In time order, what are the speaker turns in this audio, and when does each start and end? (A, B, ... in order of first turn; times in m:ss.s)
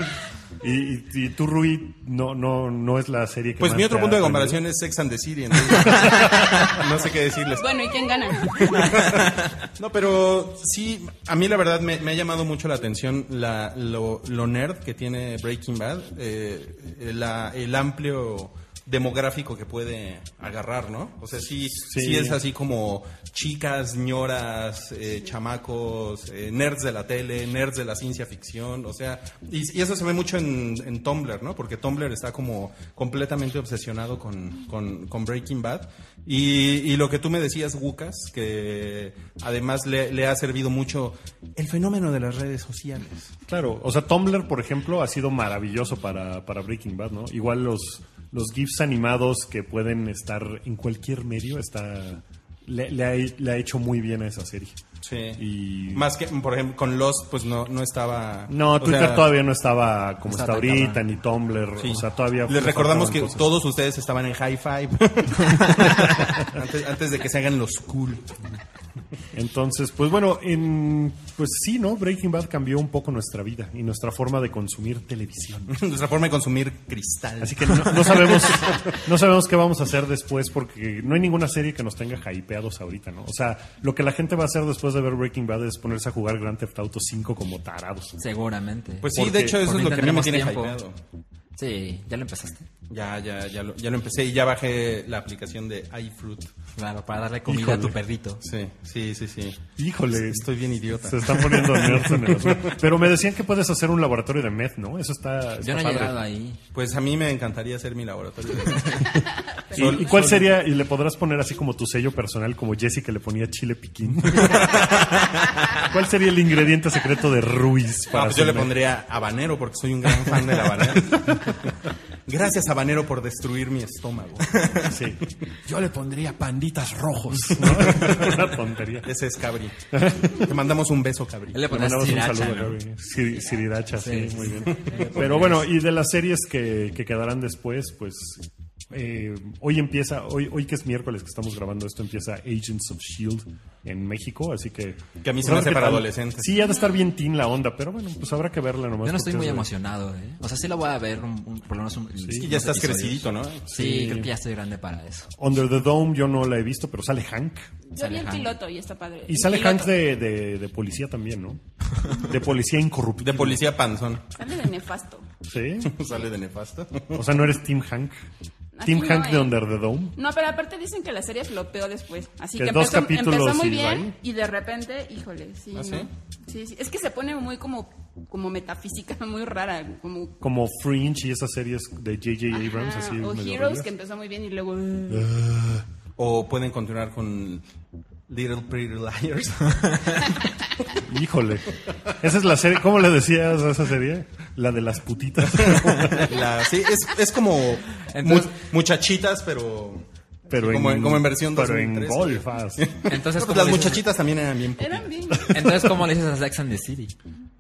0:00.6-0:04.6 A
0:03.6-0:07.7 B
0:05.7-0:06.6 A
0:07.5-0:09.0 C
0:08.4-0:43.3 B
0:21.8-0:22.4 A
0:43.5-0:54.8 A
0:55.0-0:59.3 B
0:55.4-0:56.1 A
0:58.5-1:03.5 A
1:00.3-1:01.0 D
1:01.8-1:08.6 B
1:06.2-1:06.5 A
1:09.3-1:15.8 A
1:15.7-1:19.0 B
1:17.4-1:28.2 A
1:28.2-1:30.8 D
1:29.0-1:31.0 B
1:29.1-1:29.8 A
1:31.6-1:32.7 D
1:32.9-1:36.5 B
1:36.8-1:38.4 D
1:37.5-1:38.0 A
1:38.4-1:42.8 B
1:39.8-1:40.5 A
1:41.0-1:46.2 A
1:45.6-1:46.6 D
1:46.7-1:50.6 B
1:48.9-1:50.4 C
1:49.7-1:58.8 A
1:54.4-1:55.8 D
1:58.1-2:01.7 B
2:00.1-2:01.6 A
2:02.3-2:05.1 B
2:04.8-2:09.1 A
2:07.5-2:08.5 B
2:09.0-2:09.8 B
2:09.9-2:10.5 A
2:10.3-2:11.7 B
2:11.5-2:12.8 D
2:11.6-2:29.7 A
2:13.9-2:15.7 D
2:25.2-2:26.5 B
2:26.6-2:27.0 C
2:29.0-2:35.3 D
2:32.2-2:32.5 A
2:32.3-2:33.9 B
2:33.7-2:34.3 A
2:35.4-2:37.7 A
2:37.9-2:40.0 C
2:38.0-2:38.5 D
2:39.3-2:43.7 A
2:43.2-2:44.2 B
2:44.4-2:45.3 C
2:45.4-2:45.9 A
2:45.8-2:47.4 B
2:47.1-2:48.2 A
2:48.8-2:49.6 C
2:48.8-2:50.2 A
2:50.2-3:00.4 C
2:52.6-2:54.1 A
2:55.8-2:56.1 B
3:00.4-3:03.9 A
3:02.6-3:05.3 C
3:05.1-3:05.8 A
3:06.2-3:07.6 B
3:08.3-3:10.4 B
3:11.0-3:16.4 A
3:15.5-3:25.4 B
3:18.1-3:18.5 D
3:20.5-3:22.9 A
3:23.1-3:24.0 D
3:24.8-3:25.5 C
3:25.4-3:25.8 A
3:25.5-3:27.1 D